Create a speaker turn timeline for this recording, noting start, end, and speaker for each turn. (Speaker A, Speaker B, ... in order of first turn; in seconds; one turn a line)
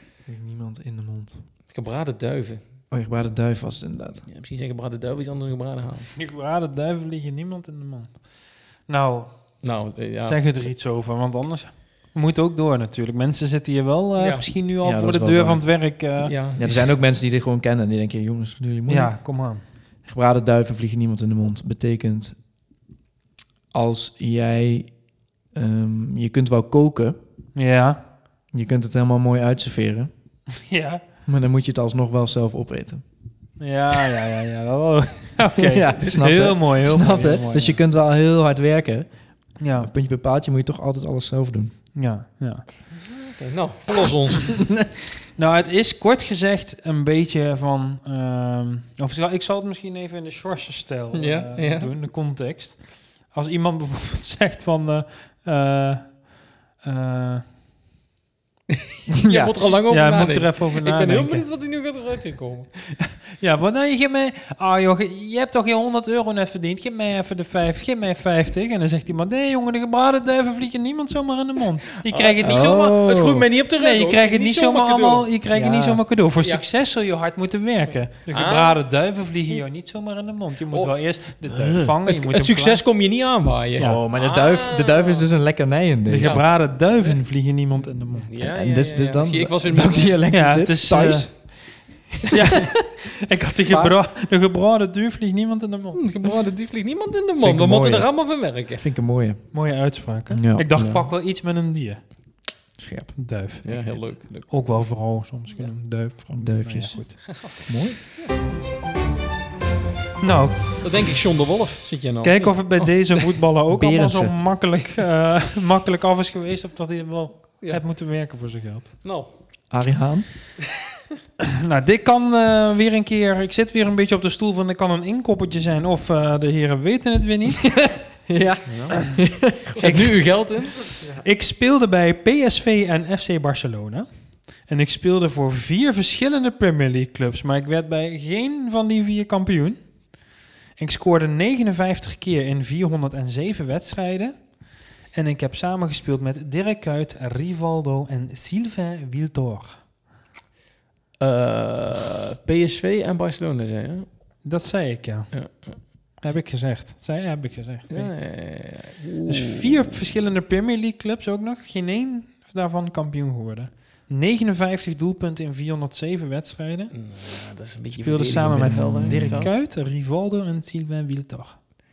Speaker A: 0.2-1.4
Speaker B: 1.7-2.6
Speaker A: 2.9-4.2
Speaker B: 4.2-6.1
Speaker C: 6.1-16.3
Speaker B: 9.6-10.7
Speaker B: 14.2-14.5
Speaker A: 14.8-15.9
Speaker B: 16.2-16.8
Speaker A: 16.6-19.4
Speaker C: 18.9-19.6
Speaker A: 20.0-22.4
Speaker A: 23.7-27.2
Speaker C: 27.5-28.0
Speaker A: 28.5-30.1
Speaker C: 30.6-31.0
Speaker A: 31.2-33.0
Speaker C: 33.6-37.8
Speaker A: 35.6-41.8
Speaker C: 39.6-39.9
Speaker C: 41.9-42.6
Speaker B: 43.0-44.7
Speaker C: 45.4-57.4
Speaker B: 51.1-51.9
Speaker B: 58.7-62.7
Speaker A: 59.2-59.5
Speaker C: 59.9-61.5
Speaker C: 63.4-73.0
Speaker B: 72.1-75.3
Speaker A: 72.4-73.5
Speaker C: 73.7-82.8
Speaker A: 75.5-76.1
Speaker B: 76.4-76.7
Speaker B: 77.9-78.8
Speaker B: 80.7-81.2
Speaker A: 81.5-81.9
Speaker B: 82.1-85.3
Speaker A: 83.8-86.4
Speaker C: 86.1-88.3
Speaker B: 86.2-87.2
Speaker B: 88.2-90.2
Speaker A: 88.4-92.0
Speaker C: 90.3-96.2
Speaker A: 93.7-94.0
Speaker B: 95.9-98.8
Speaker A: 97.4-100.7
Speaker C: 99.5-102.5
Speaker B: 100.8-101.1
Speaker A: 102.8-103.7
Speaker C: 103.2-107.2
Speaker B: 103.6-105.7
Speaker A: 106.3-108.0
Speaker B: 107.3-108.3
Speaker C: 110.2-110.8
Speaker B: 110.8-113.4
Speaker C: 112.2-119.0
Speaker A: 113.7-114.4
Speaker B: 117.6-117.9
Speaker B: 119.0-119.3
Speaker A: 119.7-120.3
Speaker C: 121.6-128.1
Speaker A: 128.2-130.3
Speaker B: 128.7-128.9
Speaker B: 129.8-131.0
Speaker C: 131.2-149.8
Speaker B: 151.2-154.1
Speaker C: 154.4-158.1
Speaker B: 155.3-156.2
Speaker B: 157.9-159.9
Speaker C: 159.2-166.9
Speaker B: 166.9-169.5
Speaker C: 167.9-171.6
Speaker A: 168.4-169.5